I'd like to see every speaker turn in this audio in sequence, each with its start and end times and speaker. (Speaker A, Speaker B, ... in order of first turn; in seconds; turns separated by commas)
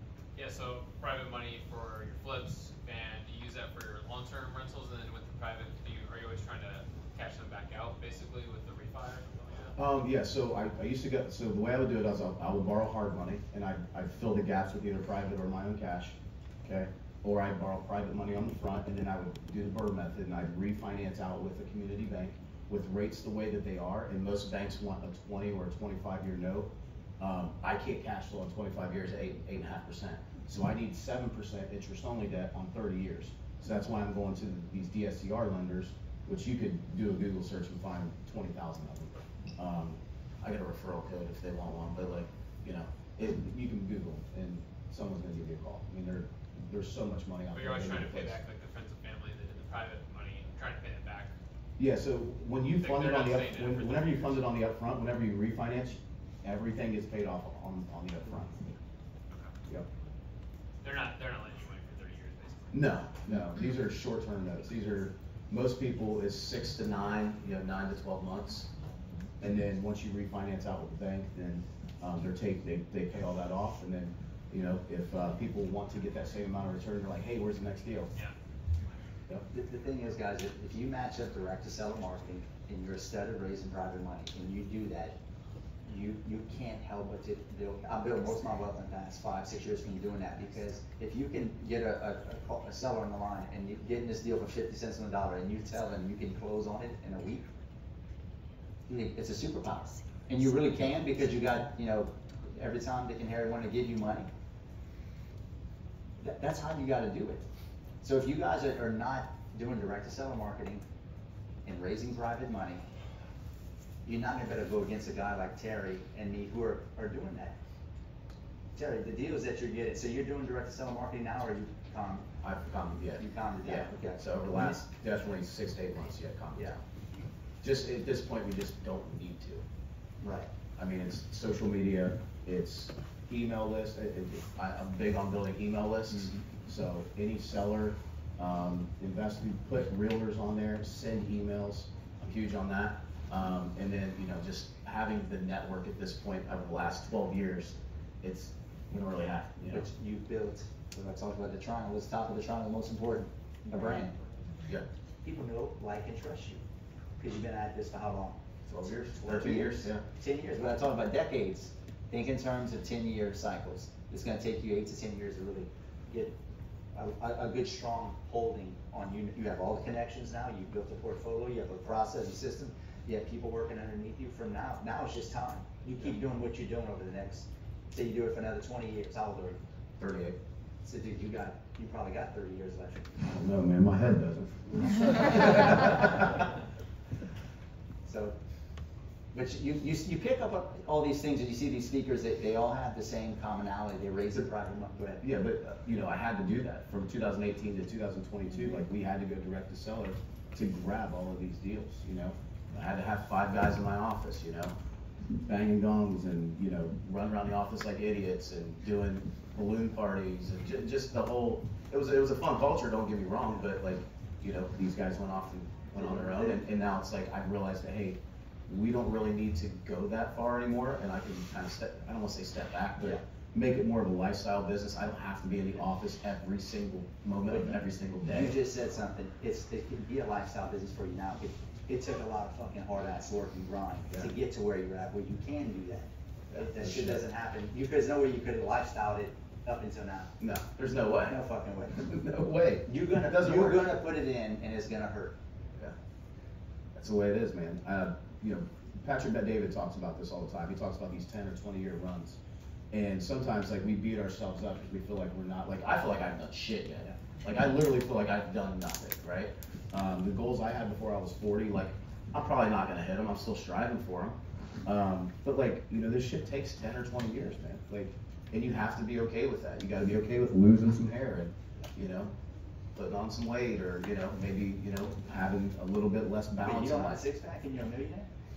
Speaker A: 0.3-9.7, Speaker B: 9.8-26.7, Speaker B: 27.2-48.4, Speaker A: 47.5-51.3, Speaker B: 51.8-58.7, Speaker A: 52.7-54.5, Speaker A: 60.8-62.9, Speaker B: 62.7-68.7, Speaker B: 69.4-78.1, Speaker C: 79.5-85.1, Speaker C: 85.8-97.4, Speaker C: 98.9-104.3, Speaker C: 106.2-107.4, Speaker C: 108.0-110.8, Speaker C: 111.6-112.8, Speaker C: 114.0-117.5, Speaker C: 118.7-122.3, Speaker B: 122.4-126.8, Speaker C: 123.2-124.8, Speaker B: 127.6-129.6, Speaker C: 130.2-130.5, Speaker B: 130.8-149.9, Speaker C: 136.1-136.4, Speaker C: 149.7-154.2, Speaker C: 155.2-156.6, Speaker C: 157.2-158.4, Speaker B: 158.6-160.0, Speaker C: 159.2-166.3, Speaker C: 166.9-179.6, Speaker B: 180.0-180.4, Speaker C: 180.8-183.2, Speaker B: 183.2-186.3, Speaker C: 188.1-188.3, Speaker C: 189.3-195.2, Speaker B: 195.2-204.7, Speaker B: 205.4-228.6, Speaker C: 215.9-216.6, Speaker C: 227.5-240.3, Speaker B: 236.5-237.2, Speaker B: 240.4-241.4, Speaker C: 241.2-242.1, Speaker B: 241.9-243.9, Speaker C: 242.8-245.4, Speaker B: 246.9-252.4, Speaker B: 252.9-272.3, Speaker B: 272.9-277.2, Speaker C: 276.6-278.3